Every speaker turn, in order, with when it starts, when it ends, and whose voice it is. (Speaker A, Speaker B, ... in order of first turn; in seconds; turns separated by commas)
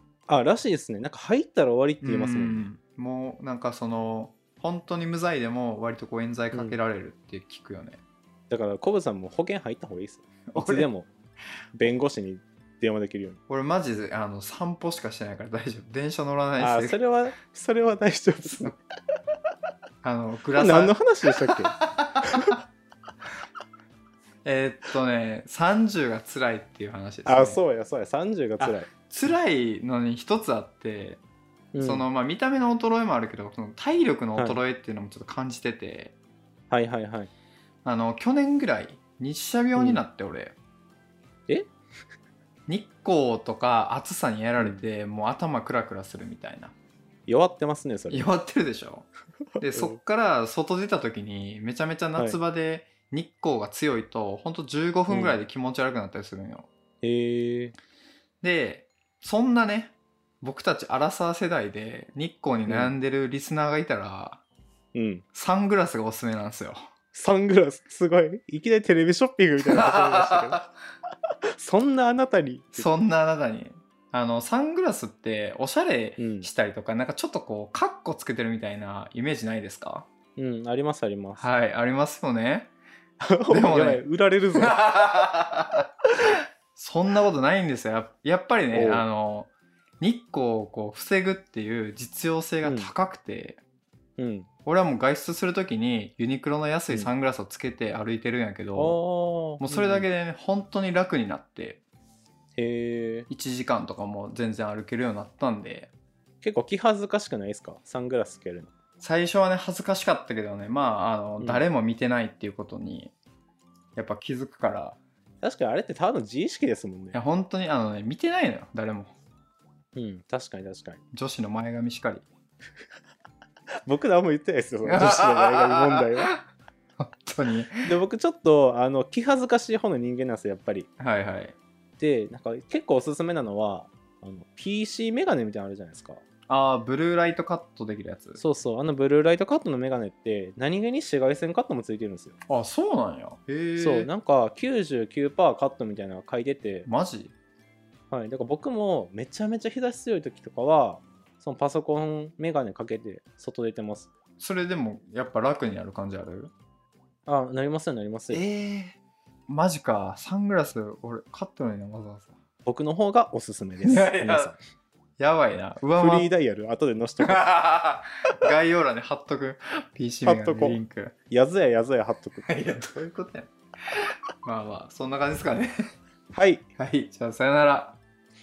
Speaker A: 0.3-2.7, Speaker B: 2.0-8.0, Speaker A: 6.5-6.8, Speaker A: 8.5-11.1, Speaker B: 10.5-10.9, Speaker A: 11.7-13.4, Speaker B: 13.5-17.0, Speaker A: 16.6-18.7, Speaker B: 18.4-18.8, Speaker B: 20.0-21.0, Speaker A: 20.6-22.5, Speaker B: 21.8-22.2, Speaker B: 24.4-27.6, Speaker A: 27.3-28.9, Speaker B: 28.6-31.2, Speaker A: 31.7-32.1, Speaker B: 31.8-36.1, Speaker A: 34.4-34.6, Speaker A: 36.7-37.3, Speaker B: 37.9-40.5, Speaker A: 39.8-40.0, Speaker B: 42.7-46.7, Speaker A: 44.6-44.8, Speaker A: 47.3-48.3, Speaker B: 48.1-49.1, Speaker A: 49.6-50.0, Speaker B: 49.6-56.7, Speaker A: 55.1-55.4, Speaker A: 57.0-57.8, Speaker B: 58.4-64.4, Speaker A: 62.7-62.9, Speaker A: 64.9-65.2, Speaker B: 65.3-66.8, Speaker A: 67.1-70.6, Speaker B: 69.6-70.7, Speaker A: 71.6-72.9, Speaker B: 72.8-80.1, Speaker A: 76.2-76.5, Speaker A: 80.4-81.5, Speaker B: 81.4-82.7, Speaker A: 83.2-84.8, Speaker B: 83.5-84.0, Speaker B: 84.6-85.9, Speaker B: 86.8-93.6, Speaker A: 88.7-89.0, Speaker A: 92.6-92.9, Speaker A: 94.2-94.5, Speaker B: 94.7-99.0, Speaker A: 98.8-100.1, Speaker B: 99.6-101.8, Speaker A: 102.6-103.3, Speaker B: 103.3-105.9, Speaker A: 106.4-108.7, Speaker B: 109.0-113.1, Speaker A: 111.4-111.7, Speaker B: 114.0-115.0, Speaker A: 115.4-117.2, Speaker B: 117.1-119.1, Speaker A: 120.0-121.0, Speaker B: 121.1-122.3, Speaker A: 123.9-126.3, Speaker B: 124.8-126.4, Speaker B: 127.0-127.9, Speaker A: 127.8-130.9, Speaker B: 131.0-131.6, Speaker A: 132.0-136.2, Speaker B: 136.5-138.4, Speaker A: 138.4-142.4, Speaker B: 142.5-144.1, Speaker A: 143.8-146.9, Speaker B: 146.9-147.3, Speaker A: 148.1-154.1, Speaker B: 154.4-156.5, Speaker A: 157.3-158.4, Speaker B: 158.3-159.0, Speaker B: 159.5-162.3, Speaker A: 162.7-164.6, Speaker B: 163.8-164.5, Speaker B: 165.2-166.3, Speaker A: 166.0-167.5, Speaker B: 167.2-171.2, Speaker A: 170.2-170.8, Speaker A: 171.3-172.8, Speaker B: 172.5-175.8, Speaker A: 176.3-176.7, Speaker B: 176.8-178.0